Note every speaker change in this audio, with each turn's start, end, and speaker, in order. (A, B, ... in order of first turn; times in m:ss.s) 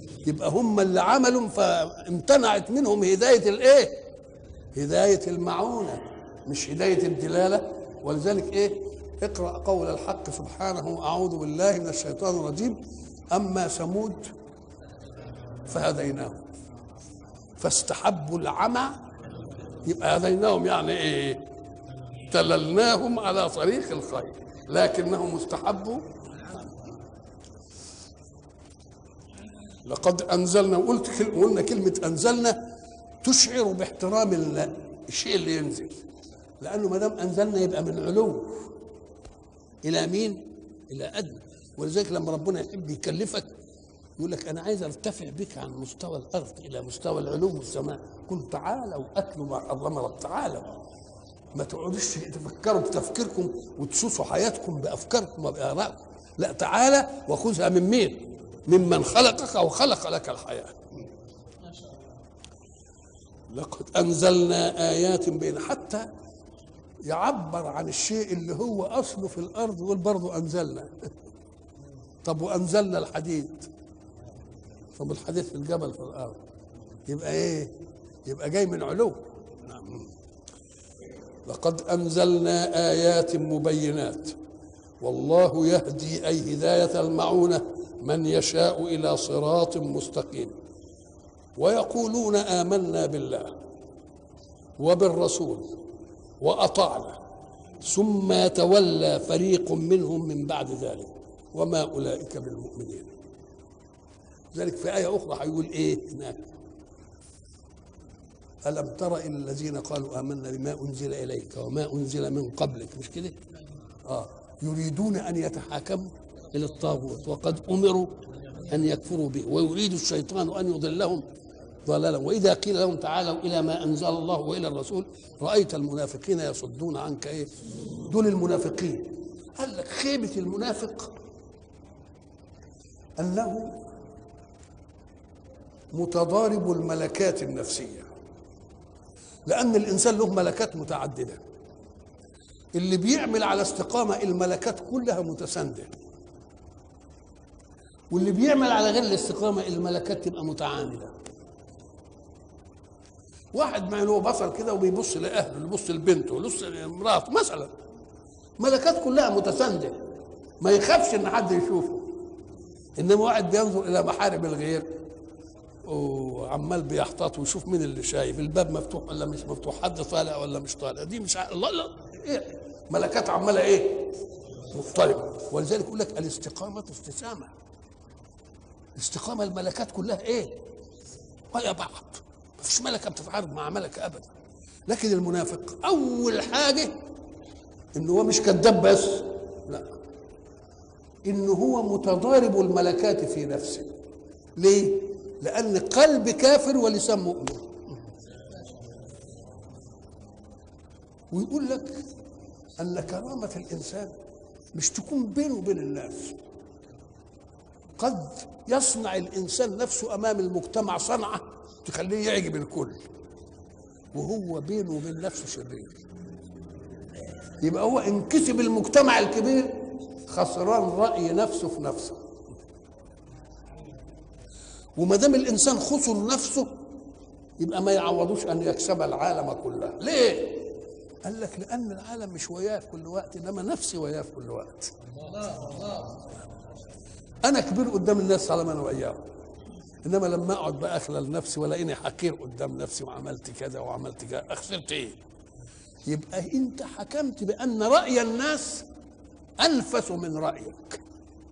0:00.2-0:04.0 A
0:04.7-0:12.8 A
0:13.3-0:14.3 A
0:15.7-0:16.4 A
0:17.6-0:19.0 A
0:19.8-0:21.4 A
0:22.3-0:26.7 A
0:29.8-0:32.6 A
0:33.2-0:36.0 A
0:36.6-0:38.7 A
0:39.8-0:43.5 A
0:44.2-0:50.8 A
0:51.5-1:00.8 A
1:03.5-1:06.1 A
1:07.0-1:11.1 A
1:12.2-1:13.7 A
1:15.0-1:16.4 A
1:17.1-1:17.7 A
1:18.2-1:20.1 A
1:21.4-1:24.4 A
1:25.0-1:30.6 A
1:31.6-1:33.6 A
1:34.8-1:35.8 A
1:36.4-1:37.2 A
1:37.8-1:43.1 A
1:44.5-1:46.5 A
1:48.6-1:53.4 A
1:54.0-2:01.2 A
2:01.8-2:07.5 A
2:08.0-2:11.1 A
2:13.2-2:13.8 A
2:15.9-2:18.1 A
2:19.4-2:21.4 A
2:22.7-2:25.9 A
2:28.1-2:31.2 A
2:33.5-2:37.7 A
2:38.6-2:40.0 A
2:40.6-2:42.1 A
2:43.0-2:44.8 A
2:45.8-2:54.1 A
2:54.7-2:57.5 A
2:59.0-3:00.5 A
3:01.5-3:04.3 A
3:04.9-3:06.9 A
3:07.9-3:09.9 A
3:11.2-3:13.9 A
3:14.6-3:17.8 A
3:21.3-3:22.0 A
3:22.8-3:24.1 A
3:24.7-3:26.4 A
3:28.0-3:33.0 A
3:34.1-3:36.0 A
3:37.6-3:42.2 A
3:45.0-3:46.7 A
3:47.6-3:50.6 A
3:51.2-3:54.9 A
3:57.4-3:59.2 A
4:00.0-4:05.2 A
4:06.0-4:08.8 A
4:09.6-4:11.0 A